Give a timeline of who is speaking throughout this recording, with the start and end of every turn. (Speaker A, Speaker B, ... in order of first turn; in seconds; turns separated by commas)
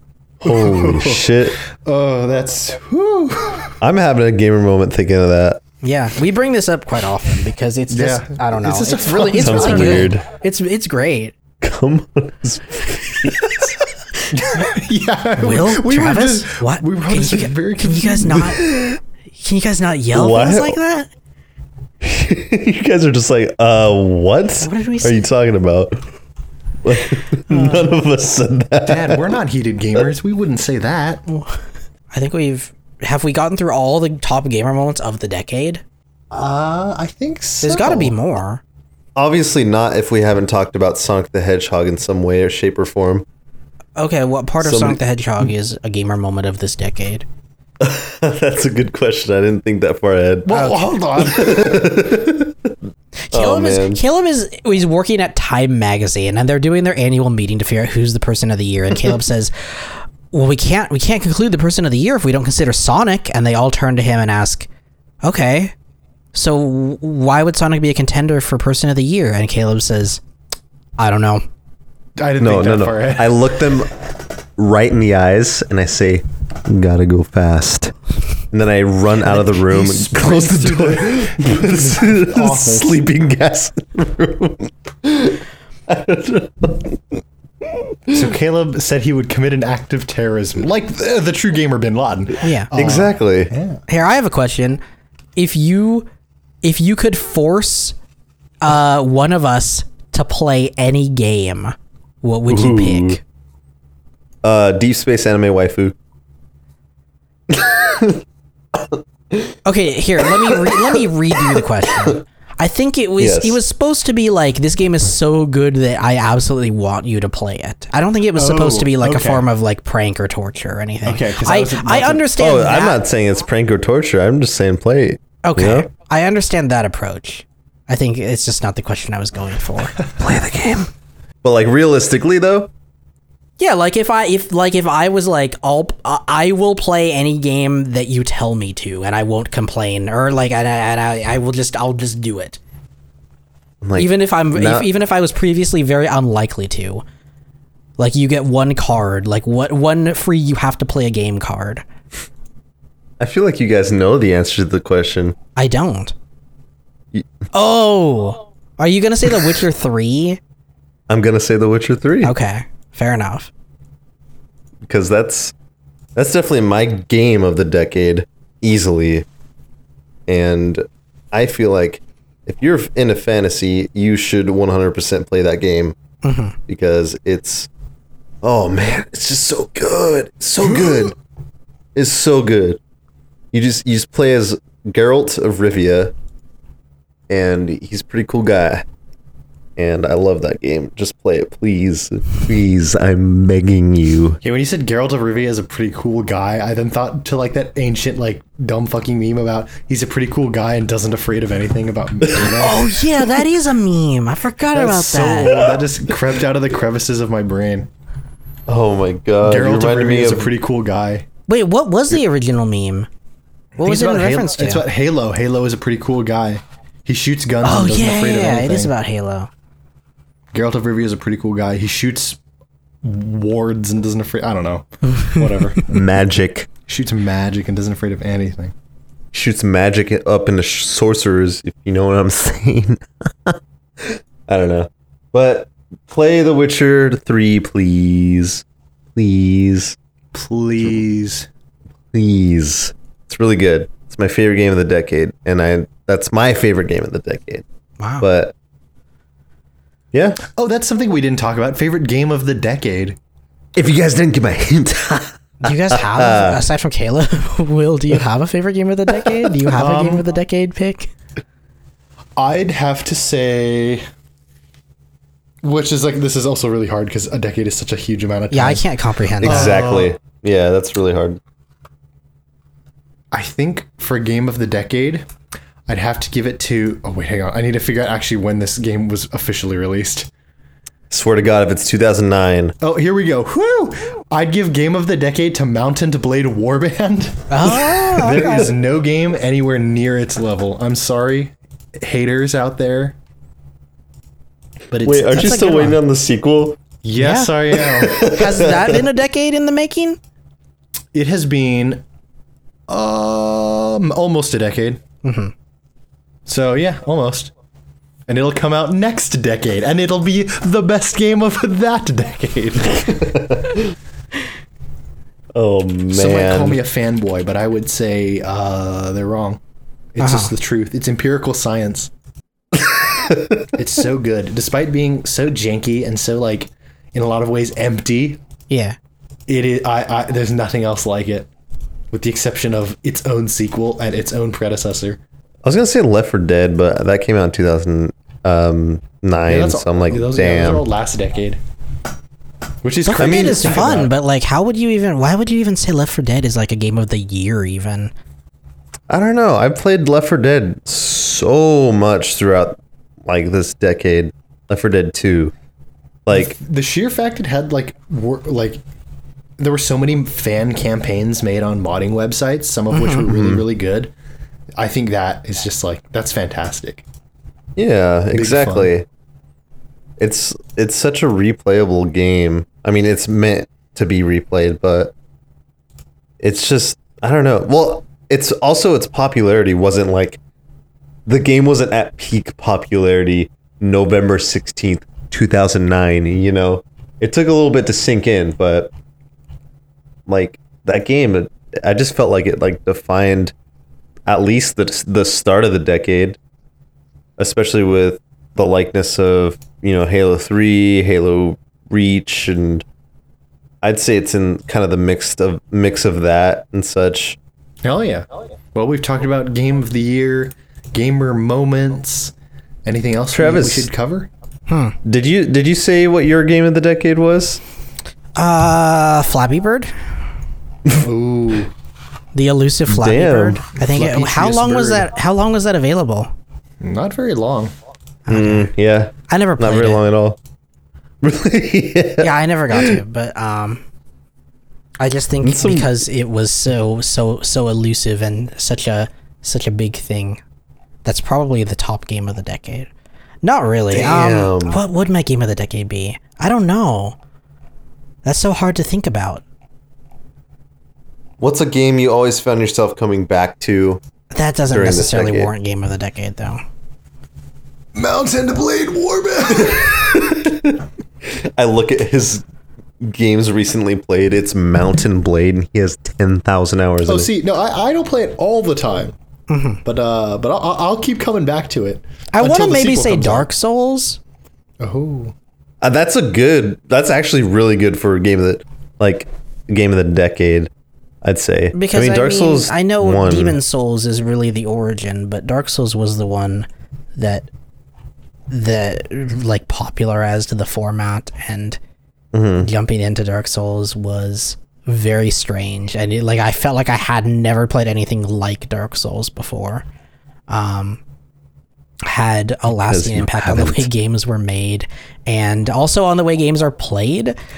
Speaker A: 0.4-3.8, Speaker B: 0.4-1.6, Speaker B: 3.8-5.6, Speaker C: 5.8-11.4, Speaker A: 7.9-10.1, Speaker B: 9.4-10.2, Speaker B: 11.6-13.7, Speaker A: 14.3-18.6, Speaker C: 15.4-18.6, Speaker B: 18.6-19.0, Speaker C: 19.4-21.1, Speaker B: 20.1-20.8, Speaker B: 22.0-26.0, Speaker C: 24.6-25.2, Speaker B: 26.8-29.3, Speaker C: 27.5-27.9, Speaker A: 28.9-31.2, Speaker C: 31.3-31.6, Speaker C: 32.1-35.8, Speaker A: 36.3-38.1, Speaker C: 37.6-38.6, Speaker B: 39.2-43.2, Speaker C: 44.0-47.3, Speaker B: 44.6-45.0, Speaker B: 47.8-52.7, Speaker A: 50.5-52.2, Speaker C: 50.5-50.8, Speaker C: 53.3-64.7, Speaker B: 53.3-54.0, Speaker C: 65.2-65.8, Speaker C: 66.3-70.2, Speaker C: 71.0-71.4, Speaker A: 72.2-73.6, Speaker B: 72.4-77.9, Speaker B: 78.5-88.2, Speaker A: 79.2-83.0, Speaker A: 88.1-93.8, Speaker C: 92.4-92.7, Speaker B: 92.8-93.5, Speaker C: 93.9-94.8, Speaker C: 95.4-96.1, Speaker C: 96.6-98.0, Speaker C: 98.6-103.2, Speaker B: 102.5-103.2, Speaker B: 104.4-106.0, Speaker B: 107.5-108.2, Speaker B: 108.8-109.5, Speaker C: 109.7-123.0, Speaker B: 111.3-112.1, Speaker B: 113.2-113.6, Speaker A: 118.4-119.5, Speaker A: 121.1-122.3, Speaker B: 122.4-125.9, Speaker C: 125.4-130.0, Speaker B: 130.2-130.9, Speaker B: 131.4-132.7, Speaker C: 133.6-142.6, Speaker B: 143.8-144.9, Speaker C: 144.0-147.0, Speaker C: 148.0-151.8, Speaker B: 153.2-155.4, Speaker C: 155.6-156.2, Speaker C: 157.5-160.4, Speaker B: 161.1-162.3, Speaker C: 162.2-163.5, Speaker B: 164.9-165.5, Speaker B: 166.2-169.3, Speaker B: 170.3-175.9, Speaker C: 176.2-176.6, Speaker B: 176.7-177.7, Speaker B: 178.4-181.2, Speaker B: 181.9-182.8, Speaker B: 183.5-186.1, Speaker B: 187.3-188.8, Speaker B: 189.8-194.4, Speaker A: 194.4-202.9, Speaker C: 202.6-205.5, Speaker A: 204.7-207.9, Speaker B: 205.5-205.8, Speaker B: 208.7-210.5, Speaker A: 209.4-211.3, Speaker C: 211.5-213.1, Speaker A: 213.8-218.9, Speaker C: 213.8-214.9, Speaker C: 217.6-219.5, Speaker A: 220.5-222.4, Speaker A: 223.0-226.0, Speaker B: 225.9-226.7, Speaker A: 226.9-228.7, Speaker B: 229.3-238.6, Speaker B: 239.2-240.0, Speaker A: 240.3-241.5, Speaker B: 242.1-247.6, Speaker C: 248.0-248.3, Speaker B: 248.2-248.5, Speaker B: 250.1-250.4, Speaker A: 250.5-253.2, Speaker B: 253.8-256.6, Speaker C: 255.6-261.1, Speaker A: 259.7-260.2, Speaker A: 262.4-264.1, Speaker A: 265.6-268.9, Speaker C: 268.5-269.8, Speaker A: 269.4-270.1, Speaker B: 269.4-271.4, Speaker A: 273.3-275.3, Speaker A: 275.9-280.3, Speaker B: 281.1-282.8, Speaker A: 282.8-293.2, Speaker C: 287.5-288.6, Speaker A: 294.9-296.0, Speaker B: 295.0-296.8, Speaker C: 295.3-295.9, Speaker A: 297.0-298.8, Speaker C: 297.2-297.5, Speaker B: 297.8-299.0, Speaker C: 298.2-300.2, Speaker A: 301.1-302.0, Speaker A: 302.9-305.0, Speaker C: 305.2-305.5, Speaker A: 306.5-307.5, Speaker A: 308.3-313.3, Speaker B: 313.1-313.9, Speaker B: 315.5-316.8, Speaker A: 316.1-319.6, Speaker A: 320.1-322.1, Speaker C: 320.2-320.5, Speaker B: 322.8-323.7, Speaker A: 323.8-328.4, Speaker C: 328.7-329.0, Speaker A: 329.5-331.5, Speaker A: 332.1-335.2, Speaker B: 335.6-340.8, Speaker A: 339.5-341.6, Speaker A: 342.8-344.1, Speaker C: 343.1-348.1, Speaker B: 343.2-344.1, Speaker B: 349.1-355.5, Speaker B: 356.3-356.6, Speaker A: 356.3-358.8, Speaker A: 359.6-364.1, Speaker C: 362.9-363.3, Speaker B: 363.3-363.6, Speaker A: 364.8-367.1, Speaker B: 367.8-369.1, Speaker A: 368.3-368.9, Speaker B: 370.2-375.1, Speaker B: 376.4-380.4, Speaker B: 381.3-388.9, Speaker B: 390.3-393.5, Speaker B: 394.3-396.4, Speaker B: 397.4-402.9, Speaker B: 403.8-407.4, Speaker A: 407.8-412.3, Speaker A: 412.9-414.3, Speaker B: 413.3-413.9, Speaker C: 414.7-414.9, Speaker B: 415.1-417.6, Speaker C: 418.4-419.9, Speaker A: 420.9-421.7, Speaker C: 422.3-426.3, Speaker B: 422.9-423.6, Speaker A: 423.8-425.1, Speaker A: 426.8-427.7, Speaker C: 428.3-428.7, Speaker B: 428.3-430.4, Speaker C: 429.3-430.0, Speaker B: 431.2-433.0, Speaker C: 432.2-433.8, Speaker C: 435.0-440.4, Speaker B: 435.4-436.0, Speaker C: 441.1-442.9, Speaker C: 443.4-447.2, Speaker B: 443.9-444.8, Speaker C: 448.2-449.4, Speaker B: 451.4-454.0, Speaker C: 454.3-456.6, Speaker B: 454.7-455.5, Speaker A: 457.9-460.5, Speaker B: 459.6-460.7, Speaker B: 461.4-462.4, Speaker B: 463.0-467.3, Speaker A: 467.1-469.1, Speaker C: 469.5-469.8, Speaker A: 469.8-473.5, Speaker C: 472.3-474.2, Speaker A: 474.8-475.4, Speaker B: 475.8-480.7, Speaker B: 481.2-483.6, Speaker C: 481.7-487.5, Speaker C: 488.5-491.8, Speaker B: 492.3-492.7, Speaker C: 492.6-499.9, Speaker C: 500.5-501.0, Speaker C: 502.1-507.4, Speaker B: 502.7-503.9